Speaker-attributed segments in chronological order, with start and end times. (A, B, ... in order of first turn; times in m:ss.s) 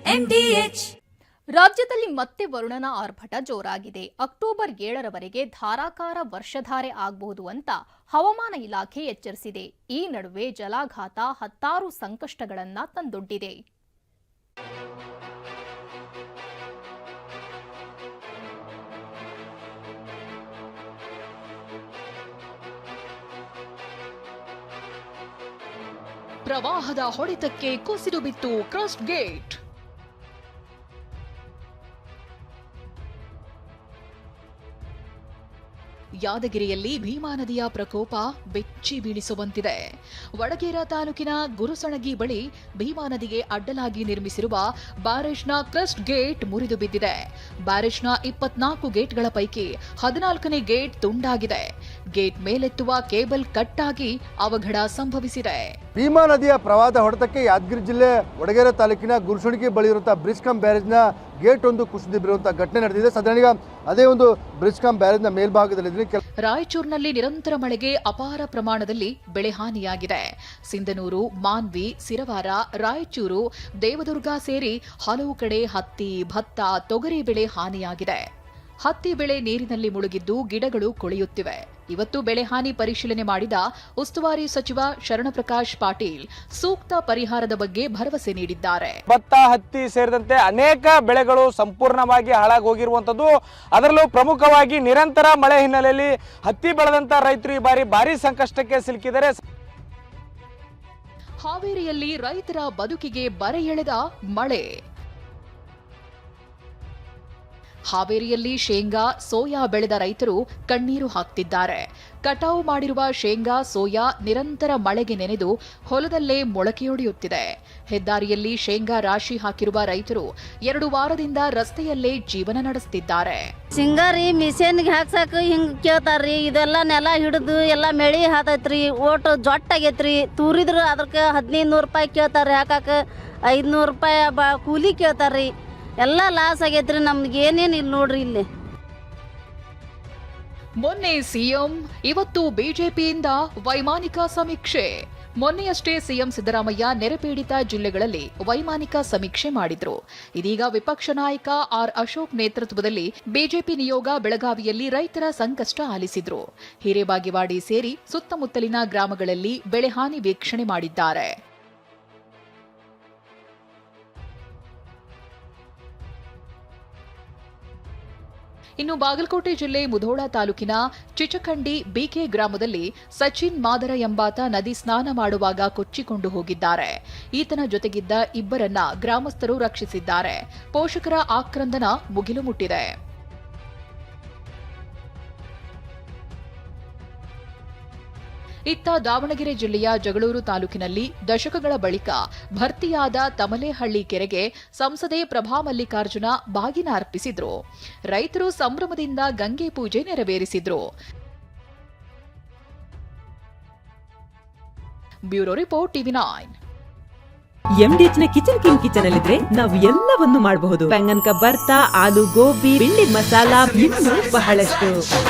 0:00.3-0:00.7 A
0:01.6-0:13.6 A
0:26.4-0:29.6 B
0:36.2-0:55.7 B
0:56.0-1:06.2 C
1:06.5-1:18.2 B
1:18.9-1:29.0 B
1:29.1-1:39.4 D
1:41.4-1:44.7 B
1:47.9-2:03.5 B
2:03.8-2:12.9 E
2:13.5-2:15.5 E
2:16.0-2:18.4 E
2:20.8-2:41.3 B
2:48.8-3:02.9 B
3:08.7-3:17.6 B
3:18.1-3:20.8 B
3:25.3-3:26.6 B
3:27.8-3:35.0 F